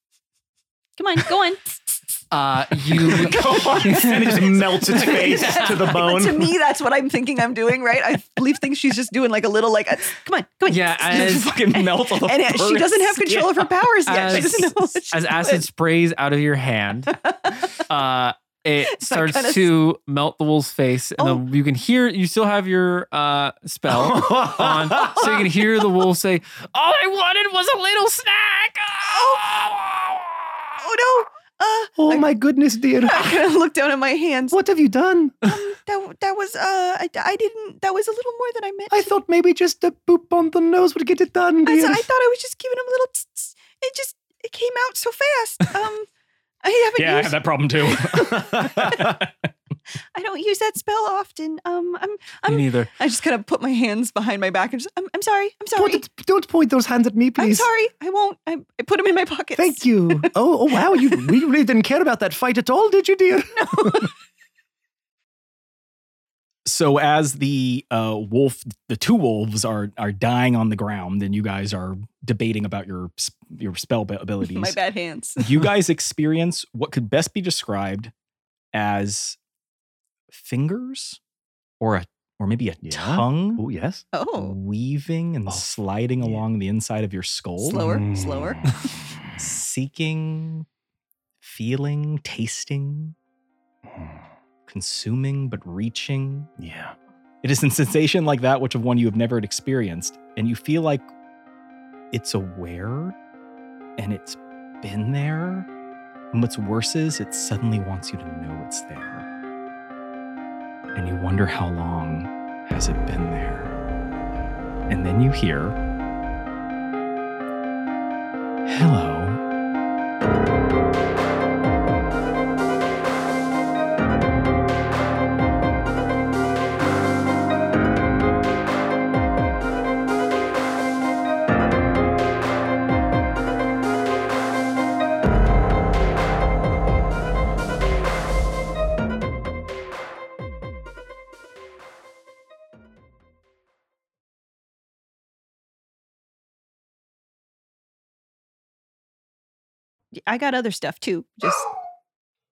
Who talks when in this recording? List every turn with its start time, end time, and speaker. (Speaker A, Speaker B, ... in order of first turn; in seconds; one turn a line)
Speaker A: 1.0-2.1
Speaker B: 2.3-6.0
Speaker C: 3.0-5.1
Speaker D: 3.3-6.5
Speaker A: 4.9-15.7
Speaker B: 10.7-11.5
Speaker C: 11.1-14.6
Speaker B: 14.1-17.2
Speaker A: 17.1-17.8
Speaker B: 17.9-30.8
Speaker A: 18.8-19.7
Speaker D: 23.9-25.5
Speaker A: 29.1-29.5
Speaker A: 30.8-32.3
Speaker D: 32.0-33.5
Speaker A: 33.0-34.6
Speaker D: 34.5-35.4
Speaker A: 35.4-39.1
Speaker D: 38.9-42.1
Speaker A: 41.6-46.1
Speaker A: 46.6-49.1
Speaker C: 47.0-49.3
Speaker D: 48.2-49.1
Speaker A: 50.1-56.0
Speaker B: 52.5-52.9
Speaker D: 55.8-57.7
Speaker A: 57.4-61.3
Speaker D: 59.6-64.1
Speaker A: 63.5-64.1
Speaker C: 66.7-74.8
Speaker A: 74.4-75.6
Speaker C: 75.4-78.1
Speaker C: 78.7-79.4
Speaker C: 80.3-81.2
Speaker C: 81.8-83.6
Speaker D: 82.8-84.0
Speaker A: 84.1-84.6
Speaker C: 84.4-87.9
Speaker A: 87.6-88.9
Speaker D: 87.7-88.6
Speaker C: 89.4-90.7
Speaker C: 91.4-93.2
Speaker C: 94.7-96.5
Speaker D: 96.6-96.9
Speaker C: 97.4-101.1
Speaker C: 102.1-103.2
Speaker C: 104.0-105.7
Speaker C: 106.3-109.2
Speaker C: 111.0-113.8
Speaker C: 114.9-115.8
Speaker C: 118.7-119.4
Speaker A: 150.2-151.7